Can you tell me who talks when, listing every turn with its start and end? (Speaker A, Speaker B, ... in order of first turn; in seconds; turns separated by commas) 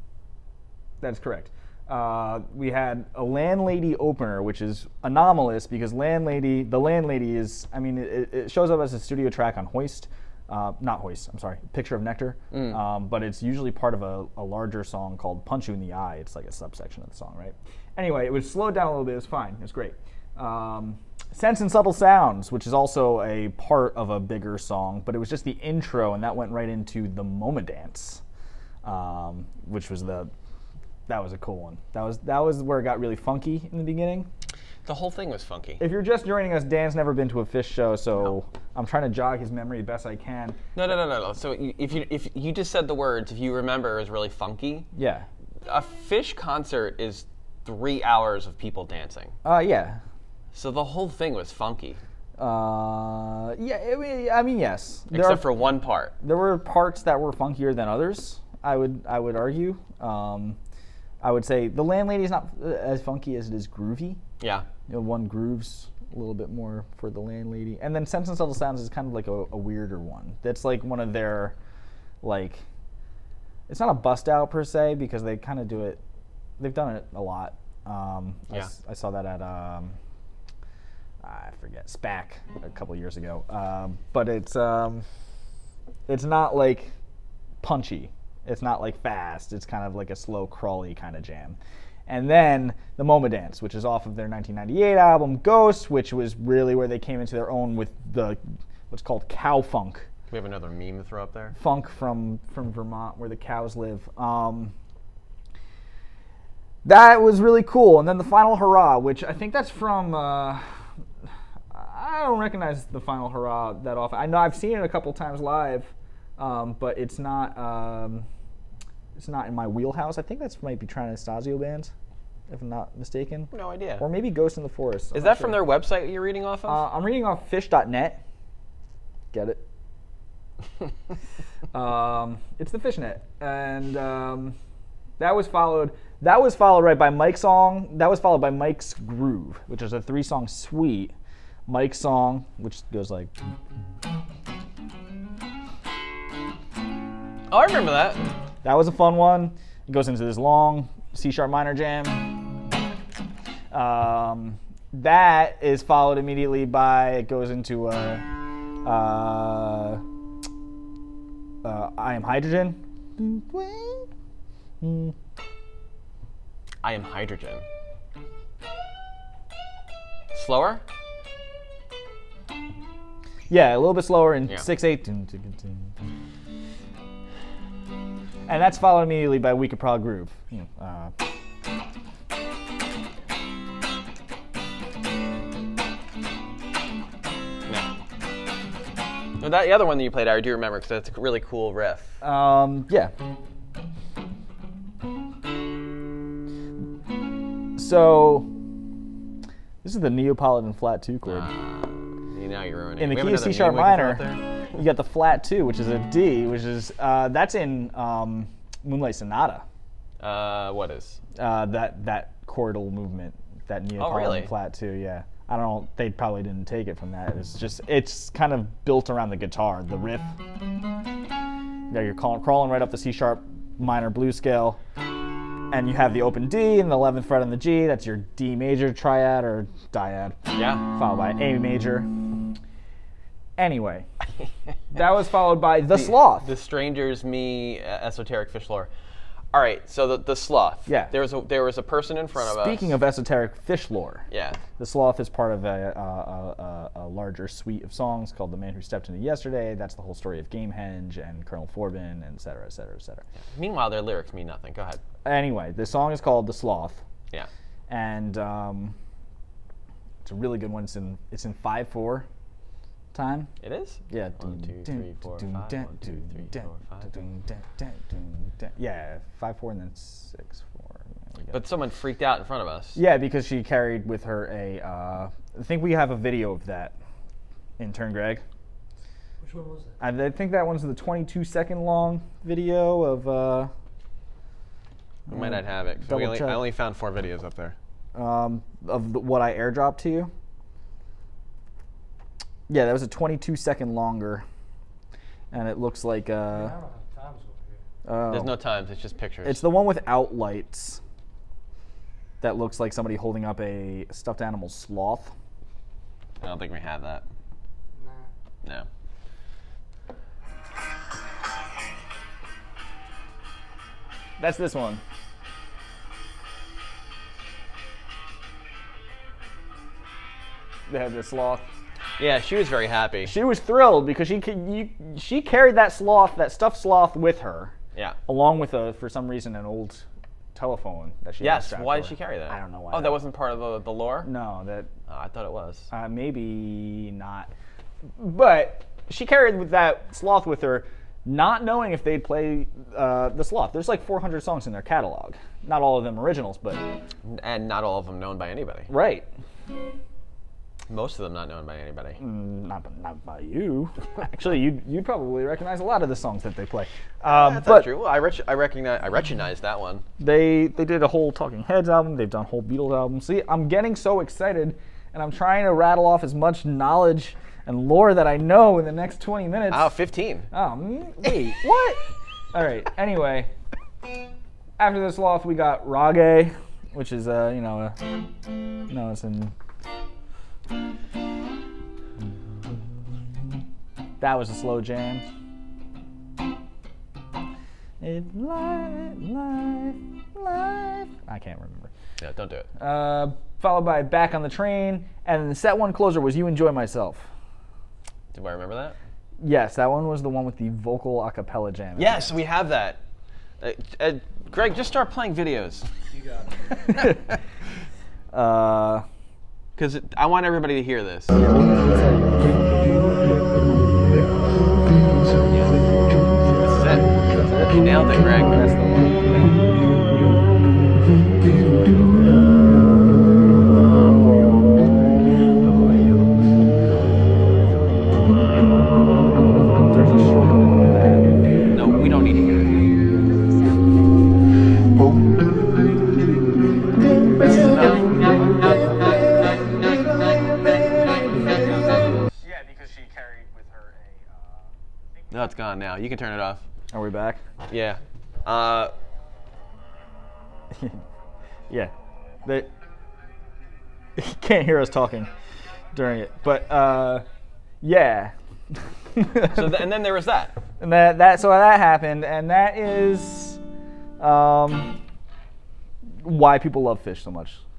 Speaker A: 1.0-28.2, Speaker B: 12.5-12.8, Speaker A: 28.8-30.3, Speaker A: 31.1-34.3, Speaker B: 34.8-35.8, Speaker A: 35.8-40.6, Speaker B: 40.7-44.9, Speaker A: 44.9-45.3, Speaker B: 45.6-49.3, Speaker A: 49.4-50.0, Speaker B: 50.5-52.0, Speaker A: 52.4-55.5, Speaker B: 55.1-56.1, Speaker A: 56.2-60.6, Speaker A: 61.2-64.2, Speaker B: 64.4-64.7, Speaker A: 64.9-71.5, Speaker A: 72.2-72.6, Speaker A: 73.7-76.0, Speaker A: 76.6-80.0, Speaker A: 81.2-85.0, Speaker A: 86.1-86.9, Speaker A: 87.6-98.4, Speaker A: 98.9-100.1, Speaker B: 100.3-101.6, Speaker A: 101.5-104.7, Speaker A: 106.8-110.6, Speaker A: 111.7-118.3, Speaker A: 119.2-121.9, Speaker A: 122.5-125.6, Speaker B: 123.5-124.0, Speaker B: 125.1-126.8, Speaker A: 126.7-128.2, Speaker A: 129.3-129.6, Speaker A: 131.7-134.6, Speaker A: 135.2-141.1, Speaker A: 141.7-143.3, Speaker B: 147.5-148.2, Speaker A: 148.6-152.3, Speaker A: 153.7-158.2, Speaker A: 158.8-160.0, Speaker A: 161.6-164.1, Speaker A: 164.8-165.1, Speaker B: 166.8-167.6, Speaker B: 170.3-170.8, Speaker A: 173.5-175.9, Speaker A: 178.4-181.1, Speaker B: 189.4-192.2, Speaker A: 192.2-193.1, Speaker A: 197.8-198.5, Speaker A: 199.8-201.5, Speaker B: 201.2-204.4, Speaker A: 203.0-209.6, Speaker B: 210.2-211.2, Speaker A: 211.3-220.3, Speaker B: 214.0-214.5, Speaker A: 221.9-224.8, Speaker A: 225.7-232.4, Speaker B: 230.5-230.8, Speaker A: 233.6-234.1, Speaker A: 234.9-236.5, Speaker B: 235.9-238.9, Speaker B: 239.5-242.9, Speaker A: 240.9-241.1, Speaker A: 242.4-244.2, Speaker B: 244.3-244.6, Speaker A: 244.8-253.2, Speaker B: 253.5-255.0, Speaker A: 255.2-257.0, Speaker A: 257.9-258.9, Speaker A: 260.2-262.3, Speaker A: 263.1-263.5, Speaker B: 263.6-267.1, Speaker A: 264.1-271.5, Speaker B: 271.5-273.0, Speaker A: 272.9-276.9, Speaker A: 277.8-278.4, Speaker C: 279.4-280.0, Speaker A: 280.0-283.7, Speaker A: 285.3-286.6, Speaker B: 285.3-287.8, Speaker A: 288.1-290.3, Speaker A: 292.7-294.4, Speaker A: 295.5-296.7, Speaker C: 296.5-297.8, Speaker A: 298.0-298.5, Speaker B: 298.3-299.6, Speaker A: 299.4-301.0, Speaker A: 302.4-305.3, Speaker B: 306.4-307.2, Speaker C: 307.9-308.3, Speaker A: 314.4-315.0, Speaker A: 320.9-321.6, Speaker B: 322.2-323.3, Speaker A: 323.2-327.7, Speaker A: 328.3-333.2, Speaker B: 331.4-334.3, Speaker A: 334.2-334.9, Speaker B: 335.1-335.9, Speaker A: 335.9-337.5, Speaker A: 338.2-346.8, Speaker B: 347.2-348.9, Speaker A: 348.9-349.3, Speaker B: 350.9-352.2, Speaker A: 352.2-357.9, Speaker B: 357.2-360.0, Speaker A: 360.2-369.9, Speaker B: 369.7-370.5, Speaker A: 370.5-373.5, Speaker A: 374.8-378.0, Speaker A: 378.9-379.5, Speaker A: 384.2-385.2, Speaker A: 388.0-391.9, Speaker B: 392.2-392.7, Speaker A: 392.8-397.3, Speaker B: 398.3-399.0, Speaker A: 399.4-402.3, Speaker B: 401.9-403.0, Speaker B: 403.6-405.9, Speaker C: 406.1-406.8, Speaker A: 406.9-407.3, Speaker A: 408.3-409.0, Speaker B: 409.8-411.5, Speaker A: 411.4-412.8, Speaker B: 415.5-415.8, Speaker B: 416.6-417.1, Speaker A: 417.3-419.6, Speaker B: 417.7-418.7, Speaker A: 429.8-431.4, Speaker B: 431.7-432.9, Speaker B: 437.4-438.2, Speaker A: 442.4-444.7, Speaker B: 445.3-446.6, Speaker A: 446.9-447.4, Speaker B: 447.7-448.9, Speaker A: 450.7-451.0, Speaker A: 454.1-455.3, Speaker A: 455.9-457.2, Speaker A: 457.8-459.9, Speaker B: 459.5-460.6, Speaker A: 460.8-463.6, Speaker A: 464.2-465.0, Speaker A: 466.2-467.6